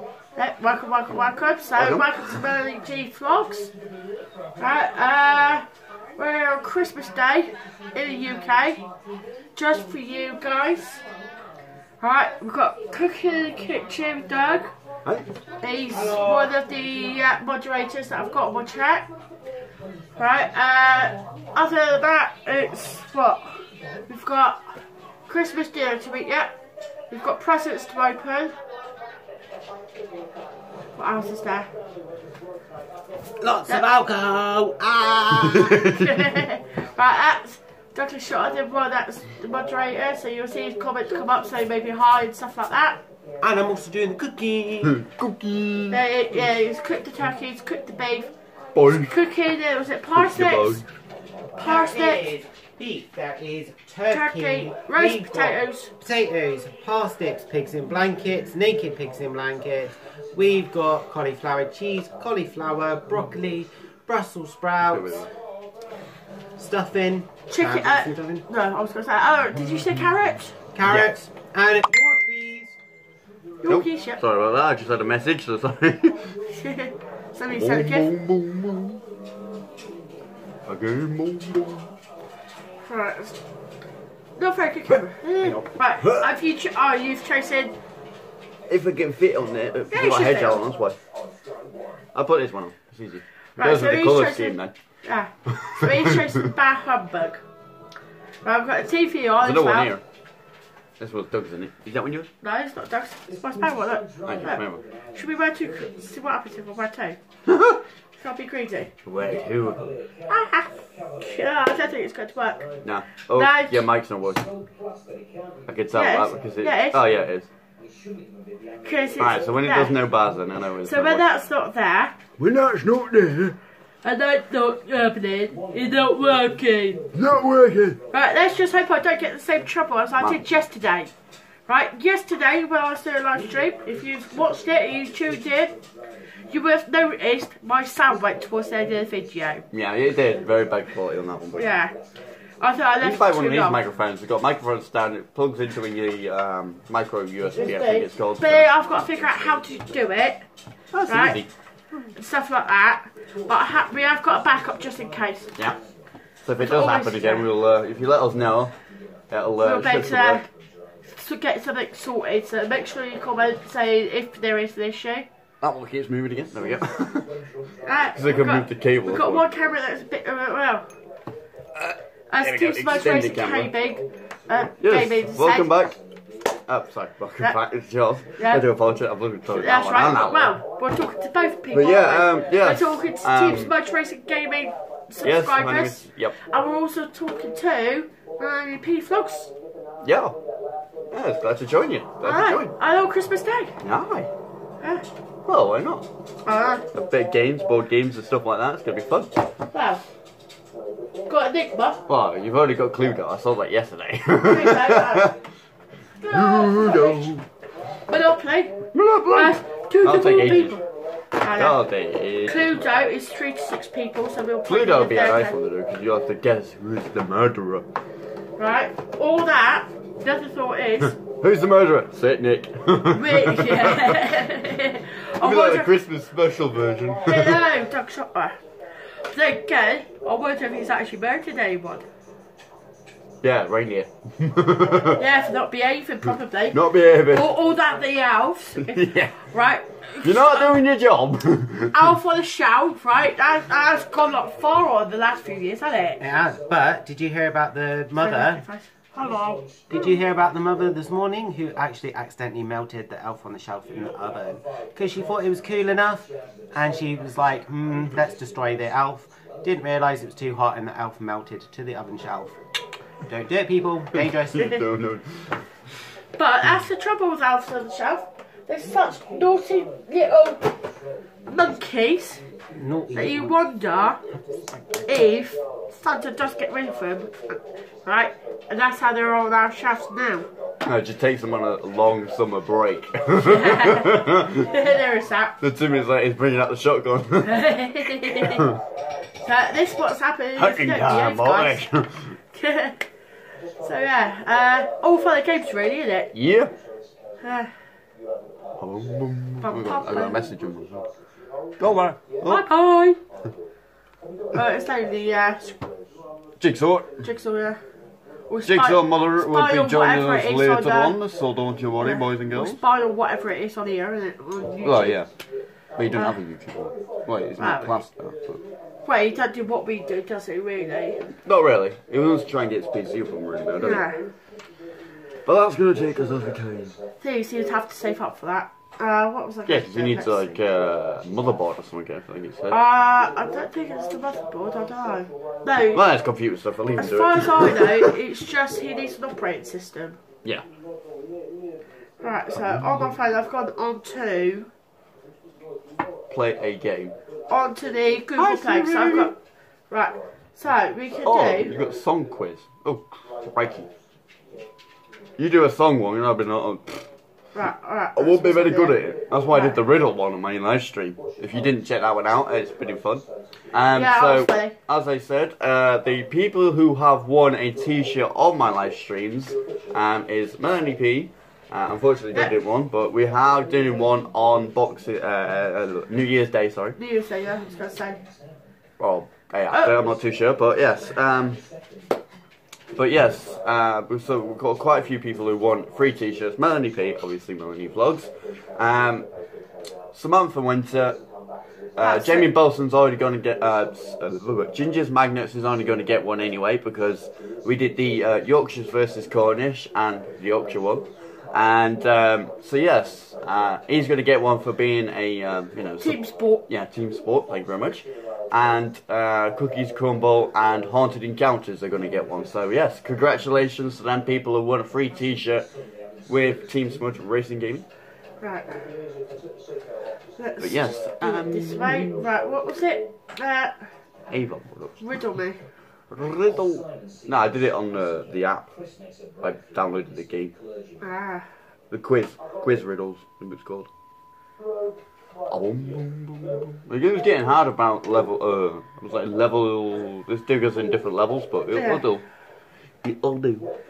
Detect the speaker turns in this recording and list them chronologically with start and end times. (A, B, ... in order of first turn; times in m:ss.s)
0:00.4-0:03.7 A
0:01.8-0:02.4 B
0:04.6-0:05.6 A
0:06.2-0:08.8 A
0:09.6-0:11.0 A
0:12.0-0:14.7 A
0:15.6-0:19.1 A
0:15.9-0:16.5 C
0:20.2-0:24.8 A
0:25.3-0:26.6 A
0:27.1-0:28.5 A
0:31.0-0:31.7 A
0:33.4-0:35.8 C
0:35.5-0:36.2 B
0:35.6-0:43.0 A
0:43.4-0:45.0 C
0:44.8-0:46.0 B
0:45.9-0:48.3 A
0:48.7-0:49.2 B
0:48.9-0:50.8 A
0:50.1-0:50.8 B
0:51.6-0:52.3 A
0:51.6-1:05.3 C
0:54.1-0:55.9 A
1:04.8-1:05.3 B
1:06.6-1:08.4 C
1:07.5-1:10.6 A
1:10.7-1:12.8 C
1:10.8-1:11.1 B
1:13.6-1:14.2 A
1:13.7-1:16.4 B
1:16.5-1:18.1 A
1:17.5-1:19.0 B
1:20.7-1:21.9 B
1:22.8-1:23.4 A
1:24.4-1:27.7 A
1:25.4-1:26.2 B
1:28.7-1:31.0 B
1:29.9-1:30.6 A
1:32.1-1:34.7 B
1:33.6-1:37.4 A
1:35.5-1:36.5 B
1:38.4-1:39.9 A
1:39.4-1:40.0 B
1:41.0-1:42.3 B
1:42.4-1:44.6 A
1:44.2-1:44.8 B
1:45.1-1:47.2 A
1:47.5-1:47.8 B
1:48.2-1:48.9 A
1:49.0-1:49.9 B
1:50.3-1:52.7 A
1:52.8-1:54.5 B
1:53.3-1:53.8 A
1:55.7-1:57.5 B
1:55.9-1:57.0 A
1:58.8-1:59.9 A
1:59.2-2:01.2 B
2:00.8-2:02.2 A
2:02.4-2:03.6 B
2:04.0-2:07.0 A
2:07.1-2:08.0 B
2:08.1-2:11.1 A
2:11.7-2:15.8 A
2:16.5-2:19.6 A
2:19.7-2:21.7 B
2:21.6-2:21.9 A
2:22.6-2:23.8 A
2:23.0-2:28.6 B
2:27.6-2:30.4 A
2:30.9-2:32.1 B
2:31.1-2:31.4 A
2:32.1-2:35.5 A
2:36.4-2:38.7 B
2:36.6-2:37.4 A
2:39.3-2:40.4 B
2:39.6-2:40.5 A
2:41.1-2:45.3 A
2:45.6-2:47.3 B
2:47.8-2:50.9 A
2:48.1-2:49.4 B
2:51.7-2:53.7 B
2:52.3-2:55.7 A
2:54.8-2:55.9 B
2:56.7-3:00.6 B
2:58.4-2:58.6 A
2:59.5-3:09.5 A
3:01.7-3:03.7 B
3:05.2-3:06.4 B
3:10.0-3:10.4 B
3:11.1-3:12.7 B
3:12.2-3:13.7 A
3:13.8-3:14.3 B
3:14.8-3:15.0 A
3:15.5-3:16.1 B
3:16.4-3:16.8 A
3:16.9-3:19.4 B
3:19.7-3:20.0 A
3:21.3-3:22.0 A
3:22.1-3:25.3 B
3:24.4-3:25.3 A
3:26.2-3:27.3 A
3:26.3-3:27.4 B
3:28.1-3:30.8 A
3:28.9-3:30.8 B
3:31.4-3:31.8 A
3:31.5-3:32.8 B
3:32.4-3:35.5 A
3:34.7-3:37.9 B
3:38.6-3:41.2 A
3:41.2-3:44.2 B
3:43.1-3:45.9 A
3:45.4-3:47.6 B
3:47.2-3:52.0 A
3:53.4-3:55.2 B
3:55.2-4:00.8 A
3:56.7-3:57.5 B
3:58.9-3:59.4 B
4:00.2-4:02.1 B
4:01.9-4:06.2 A
4:06.2-4:08.6 C
4:08.2-4:10.1 A
4:09.9-4:22.6 C
4:23.2-4:24.7 C
4:24.2-4:25.7 B
4:24.6-4:24.8 A
4:26.4-4:30.8 A
4:31.4-4:32.4 A
4:32.7-4:33.5 C
4:33.1-4:34.2 A
4:35.1-4:40.5 A
4:40.8-4:44.7 B
4:43.4-4:45.6 A
4:45.6-4:47.7 B
4:47.4-4:48.7 A
4:48.4-4:48.8 B
4:49.4-4:51.8 A
4:50.6-4:52.4 B
4:52.5-4:53.0 A
4:53.8-4:56.3 A
4:56.3-4:56.8 B
4:57.4-4:57.7 A
4:58.8-5:01.0 B
4:59.6-5:00.4 A
5:01.8-5:02.6 B
5:02.4-5:03.2 A
5:04.5-5:05.8 A
5:06.6-5:07.3 B
5:07.2-5:07.8 A
5:08.5-5:11.2 A
5:08.7-5:12.8 B
5:12.0-5:15.2 A
5:14.8-5:15.3 B
5:16.0-5:18.6 B
5:17.6-5:17.9 A
5:19.0-5:21.3 A
5:21.4-5:24.0 B
5:23.8-5:24.2 A
5:25.4-5:27.0 B
5:27.2-5:30.5 A
5:29.6-5:32.8 B
5:32.7-5:36.0 A
5:35.9-5:38.1 B
5:37.0-5:40.2 A
5:42.2-5:44.7 A
5:46.3-5:47.1 B
5:47.5-5:49.3 A
5:48.4-5:49.3 B
5:49.9-5:51.7 A
5:51.2-5:53.9 B
5:55.4-5:57.1 B
5:57.5-5:59.0 A
5:58.2-6:17.0 B
5:59.5-5:59.8 A
6:03.9-6:04.8 A
6:17.0-6:18.2 A
6:19.0-6:21.6 B
6:19.7-6:20.0 A
6:22.9-6:29.3 B
6:30.1-6:31.2 B
6:32.0-6:55.7 B
6:32.0-6:32.5 A
6:46.0-6:46.6 A
6:56.3-6:57.8 B
6:58.4-6:58.9 A
7:00.4-7:03.8 A
7:00.6-7:02.1 B
7:04.3-7:05.0 B
7:05.0-7:05.6 A
7:06.1-7:08.7 B
7:09.4-7:10.5 B
7:11.0-7:11.4 A
7:11.9-7:13.9 B
7:15.5-7:22.2 B
7:21.7-7:22.0 A
7:23.0-7:23.7 B